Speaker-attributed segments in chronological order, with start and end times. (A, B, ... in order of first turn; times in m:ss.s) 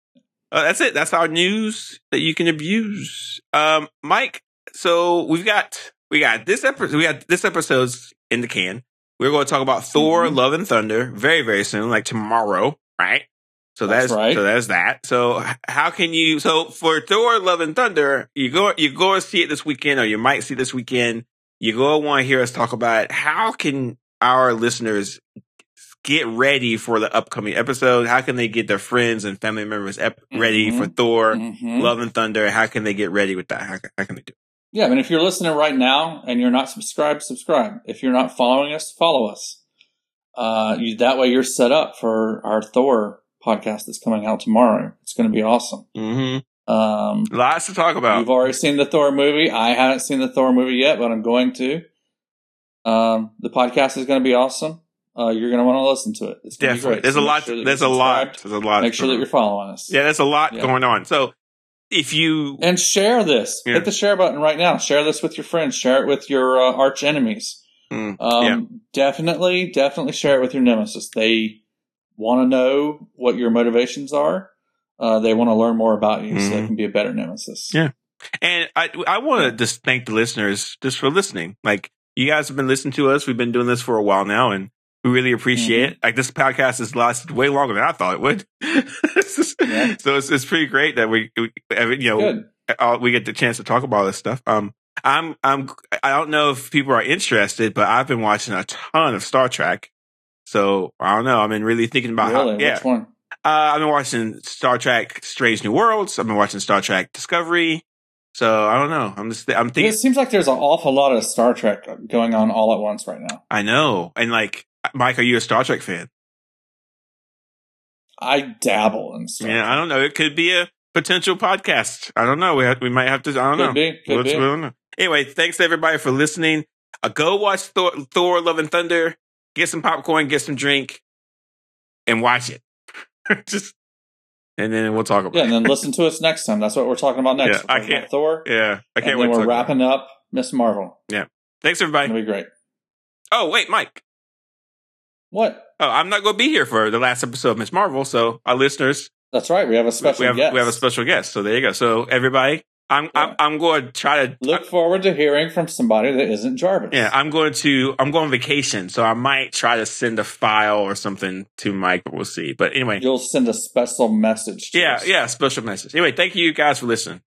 0:00.5-0:25.2 A
0:10.0-0:10.4 B
0:13.9-0:14.4 B
0:25.9-0:34.3 A
0:30.3-0:31.9 B
0:34.7-0:39.6 B
0:40.4-0:45.9 B
0:46.0-0:46.4 A
0:46.7-0:47.3 B
0:47.3-0:48.3 A
0:48.1-0:51.8 B
0:52.8-1:00.0 B
0:56.6-0:59.3 A
0:59.9-1:01.3 A
1:01.9-1:02.7 A
1:02.6-1:07.6 B
1:07.9-1:08.6 A
1:08.2-1:11.6 B
1:12.2-1:17.8 B
1:16.3-1:16.7 A
1:17.7-1:39.9 A
1:25.6-1:25.9 B
1:29.6-1:29.9 B
1:32.2-1:32.5 B
1:40.5-1:42.8 A
1:42.2-1:43.1 B
1:43.4-1:50.0 A
1:49.8-1:53.4 B
1:53.5-1:56.1 A
1:58.2-1:59.8 B
1:59.4-2:11.0 A
2:03.6-2:04.4 B
2:12.1-2:12.6 A
2:13.3-2:13.8 A
2:14.6-2:15.7 A
2:15.3-2:18.5 B
2:17.4-2:19.7 A
2:19.0-2:21.0 B
2:21.1-2:22.1 A
2:22.0-2:22.5 B
2:23.3-2:24.0 A
2:25.3-2:25.7 B
2:25.8-2:29.1 A
2:29.3-2:30.8 B
2:30.0-2:34.6 A
2:34.4-2:37.1 B
2:36.9-2:43.0 A
2:43.0-2:45.1 B
2:44.7-2:47.2 A